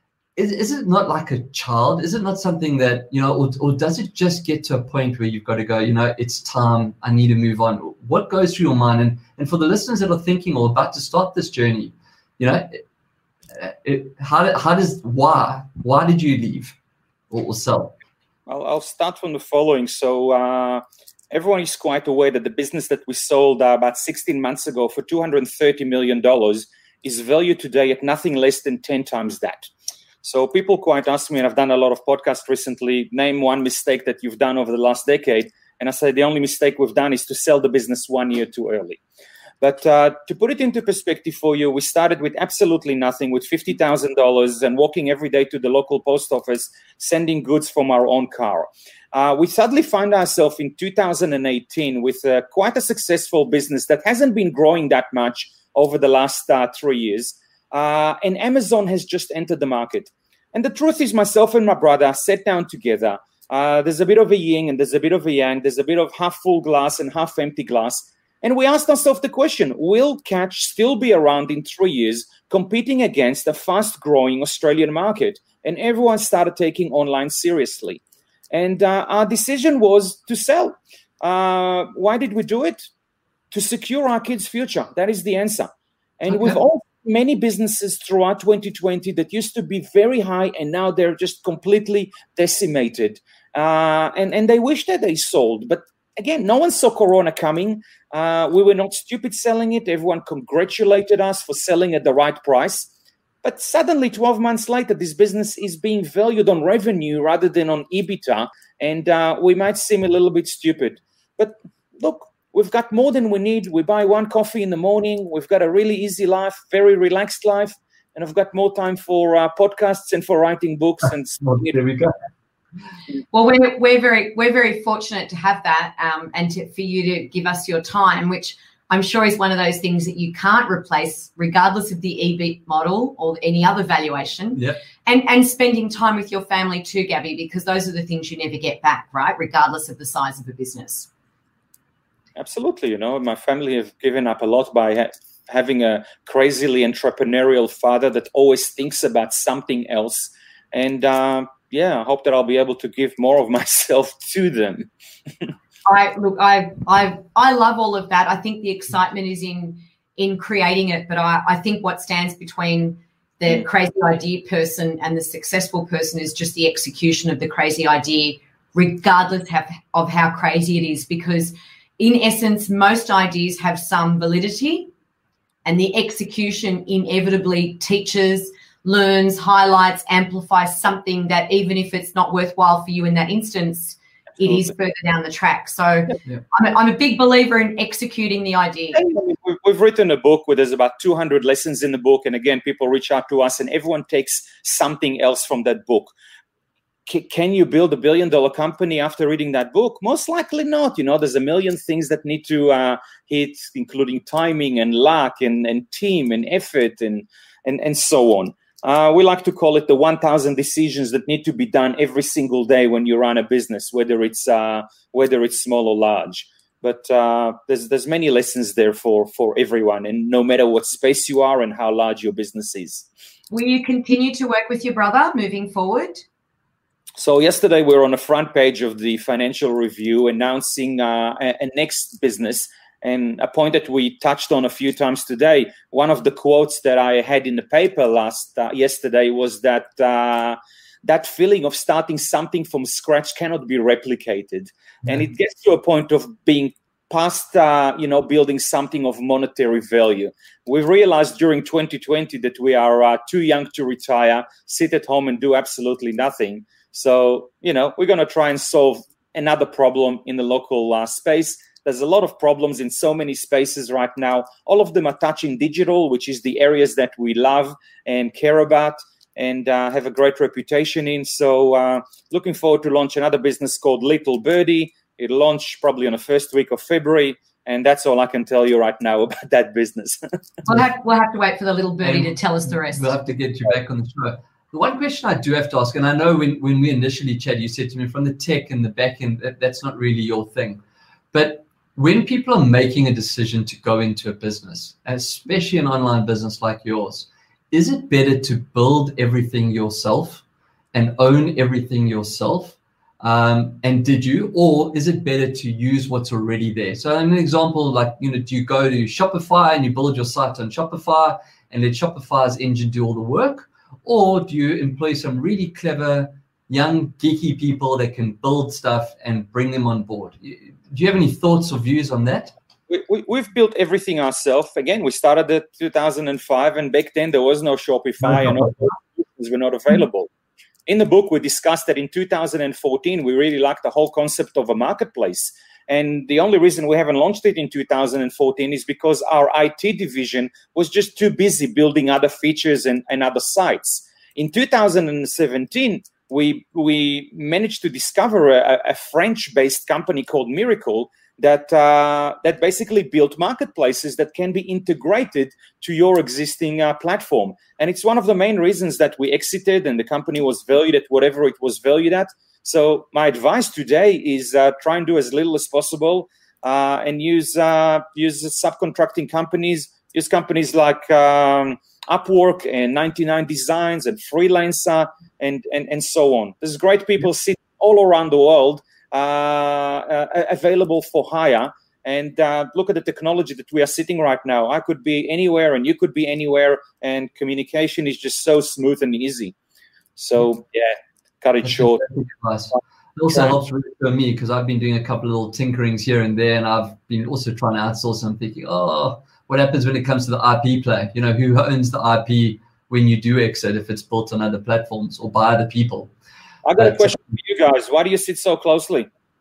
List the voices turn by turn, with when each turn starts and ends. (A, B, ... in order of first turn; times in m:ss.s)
0:00.4-0:12.8 A
0:13.5-0:16.8 A
0:17.3-0:18.0 A
0:18.5-0:29.7 B
0:30.2-0:39.0 B
0:39.6-1:22.9 B
1:23.5-1:42.9 B
1:26.3-1:26.6 A
1:43.4-2:01.7 B
2:01.4-2:02.1 A
2:03.3-2:21.1 C
2:22.4-2:34.9 B
2:35.9-2:54.9 C
2:55.6-3:09.0 C
3:08.9-3:16.1 B
3:17.1-3:43.1 B
3:43.5-3:46.2 C
3:47.2-4:40.2 B
4:40.7-4:43.2 C
4:42.0-4:50.8 A
4:51.3-5:22.5 A
5:22.9-5:30.3 B
5:28.2-5:28.8 A
5:30.9-6:29.5 B
6:30.2-6:32.0 B
6:31.6-6:46.1 A
6:46.6-6:49.1 B
6:46.8-6:47.2 A